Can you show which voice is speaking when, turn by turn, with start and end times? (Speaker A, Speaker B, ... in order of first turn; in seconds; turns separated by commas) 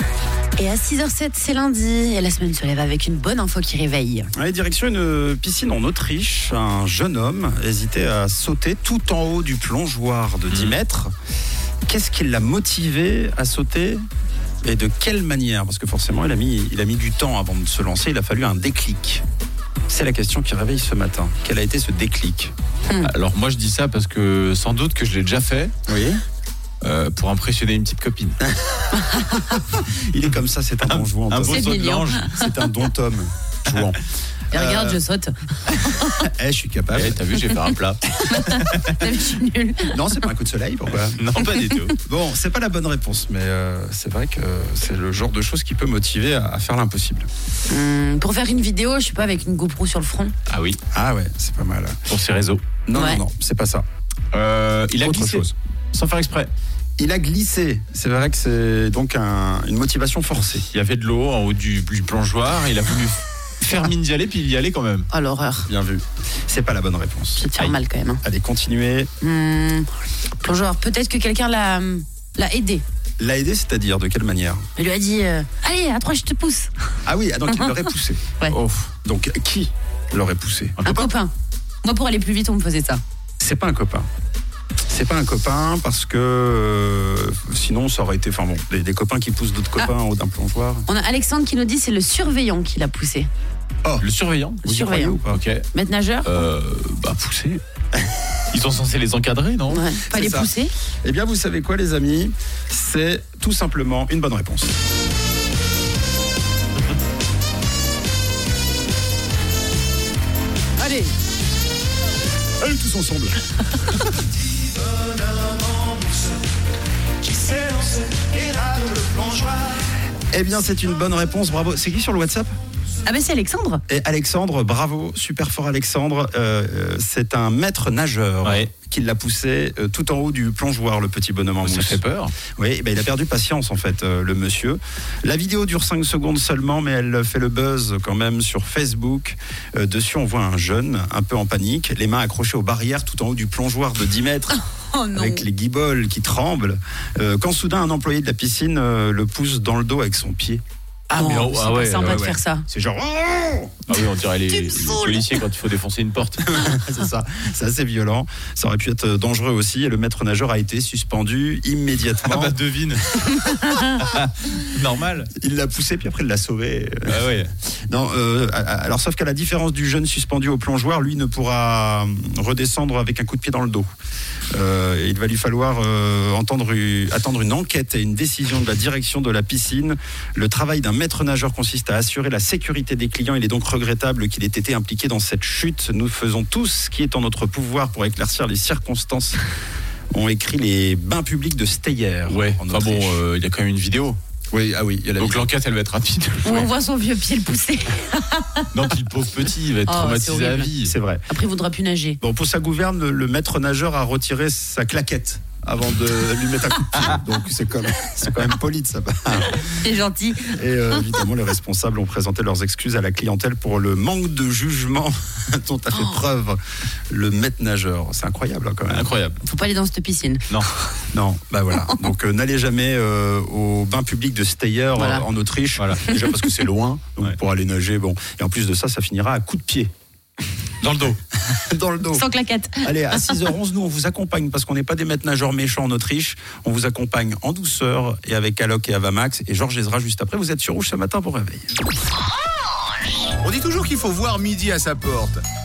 Speaker A: 0.6-4.3, Speaker B: 4.3-11.1, Speaker B: 11.9-14.0, Speaker B: 14.6-19.2, Speaker B: 19.9-22.5, Speaker A: 22.9-23.1, Speaker C: 23.0-25.8, Speaker B: 25.9-26.2, Speaker C: 26.8-28.4, Speaker B: 28.4-31.7, Speaker C: 30.8-32.3, Speaker A: 31.5-32.3, Speaker B: 32.2-34.0, Speaker B: 34.5-35.0, Speaker A: 34.5-36.3, Speaker B: 35.9-37.3, Speaker C: 36.9-39.1, Speaker A: 38.3-40.1, Speaker B: 39.9-41.2, Speaker C: 40.9-42.0, Speaker B: 42.0-47.3, Speaker A: 47.7-50.3, Speaker C: 50.5-50.8, Speaker B: 50.9-52.0, Speaker C: 52.1-52.6, Speaker B: 52.8-53.8, Speaker A: 52.9-53.2, Speaker C: 54.3-56.5, Speaker B: 55.0-55.5, Speaker B: 57.0-60.6, Speaker C: 60.4-65.1, Speaker A: 65.1-65.7, Speaker B: 65.7-69.1, Speaker A: 67.4-68.2, Speaker A: 69.2-69.9, Speaker A: 70.4-72.8, Speaker B: 73.2-74.6, Speaker A: 74.8-76.7, Speaker B: 77.0-81.0, Speaker C: 80.8-81.1, Speaker A: 80.8-81.3, Speaker A: 81.8-83.0, Speaker B: 83.4-84.1, Speaker B: 84.9-90.9, Speaker A: 90.9-93.3, Speaker C: 94.0-95.6, Speaker B: 94.6-95.4, Speaker A: 94.6-95.2, Speaker A: 95.7-96.4, Speaker C: 96.2-97.6, Speaker C: 98.5-99.8, Speaker A: 99.7-100.7, Speaker B: 100.1-100.5, Speaker B: 101.0-104.8, Speaker A: 110.8-111.1, Speaker B: 112.6-114.0, Speaker D: 114.6-116.4, Speaker D: 117.2-119.8, Speaker B: 120.3-122.5, Speaker A: 123.0-123.8, Speaker B: 123.9-132.0, Speaker C: 128.4-128.7, Speaker C: 131.6-132.3, Speaker B: 132.6-144.6, Speaker A: 144.5-145.4, Speaker B: 145.1-150.6, Speaker C: 151.1-152.3, Speaker A: 151.1-152.7, Speaker B: 152.0-153.9, Speaker C: 153.9-156.8, Speaker A: 154.7-155.2, Speaker B: 156.4-162.6, Speaker C: 162.2-163.1, Speaker B: 163.2-163.9, Speaker A: 163.5-163.8, Speaker C: 164.0-165.3, Speaker B: 165.3-173.9, Speaker C: 167.1-167.5, Speaker B: 174.5-189.4, Speaker B: 190.1-193.2, Speaker C: 192.3-194.2, Speaker B: 194.5-195.5, Speaker C: 195.2-196.7, Speaker A: 196.4-198.7, Speaker C: 198.7-200.9, Speaker A: 199.9-200.7, Speaker B: 200.8-201.2, Speaker A: 201.3-202.2, Speaker B: 202.2-209.8, Speaker A: 209.5-210.6, Speaker B: 210.5-216.6, Speaker B: 217.1-219.1, Speaker C: 218.9-219.4, Speaker A: 219.4-220.5, Speaker B: 221.1-229.9, Speaker A: 225.0-225.2, Speaker C: 225.8-226.0, Speaker C: 230.8-231.2, Speaker B: 231.5-232.2, Speaker A: 232.1-233.4, Speaker B: 232.8-241.7, Speaker D: 243.4-245.4